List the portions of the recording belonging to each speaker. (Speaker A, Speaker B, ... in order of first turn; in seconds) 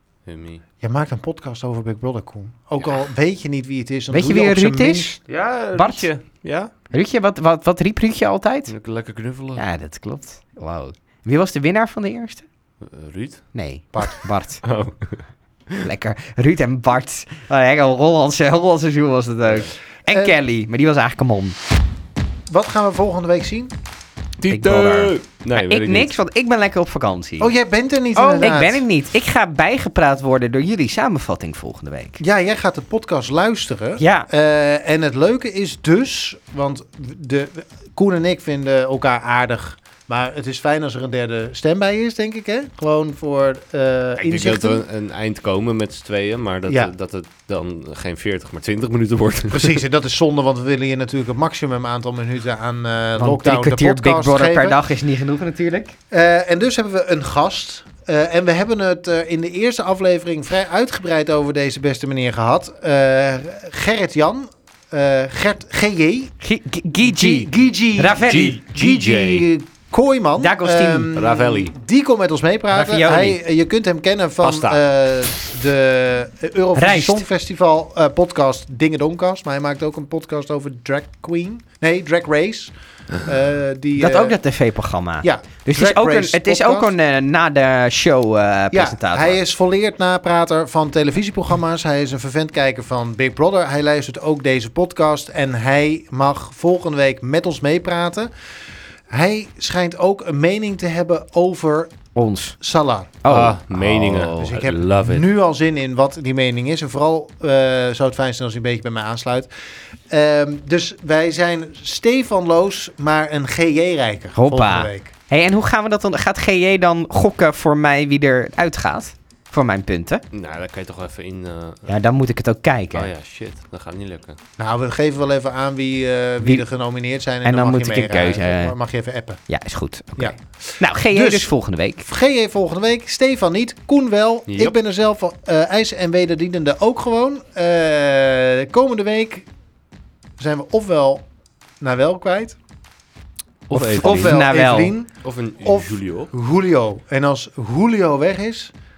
Speaker A: 0.3-0.6, 5.3-6.7, 8.7-9.6, 12.8-13.5, 14.6-15.2, 24.4-26.1, 44.2-49.8, 68.2-69.5, 71.2-71.7, 74.4-74.8, 103.3-105.2, 120.3-121.9, 122.9-124.4, 134.5-134.8, 143.7-144.4, 145.2-146.3
Speaker B: 0.8-5.1, 20.1-20.4, 22.5-23.7, 27.4-28.8, 32.2-44.8, 46.7-46.9, 49.5-54.8, 56.1-66.3, 67.0-84.3, 85.2-86.9, 88.7-98.3, 99.1-101.9, 102.6-103.2, 104.3-109.5, 110.1-115.1, 124.6-129.4, 130.2-131.5, 132.0-139.5, 140.4-141.3, 141.8-142.6, 143.7-148.7
Speaker C: 4.1-5.2, 5.7-6.1, 6.9-8.7, 9.6-12.4, 13.5-14.6, 15.8-21.6, 24.5-27.5, 28.1-32.2, 34.0-34.3, 53.2-56.0, 66.4-68.6, 70.4-71.1, 72.7-73.4, 76.8-77.3, 84.0-89.4, 102.2-102.6, 103.2-104.4, 114.4-120.2, 121.9-123.1, 127.4-128.8, 129.5-132.1, 143.8-144.9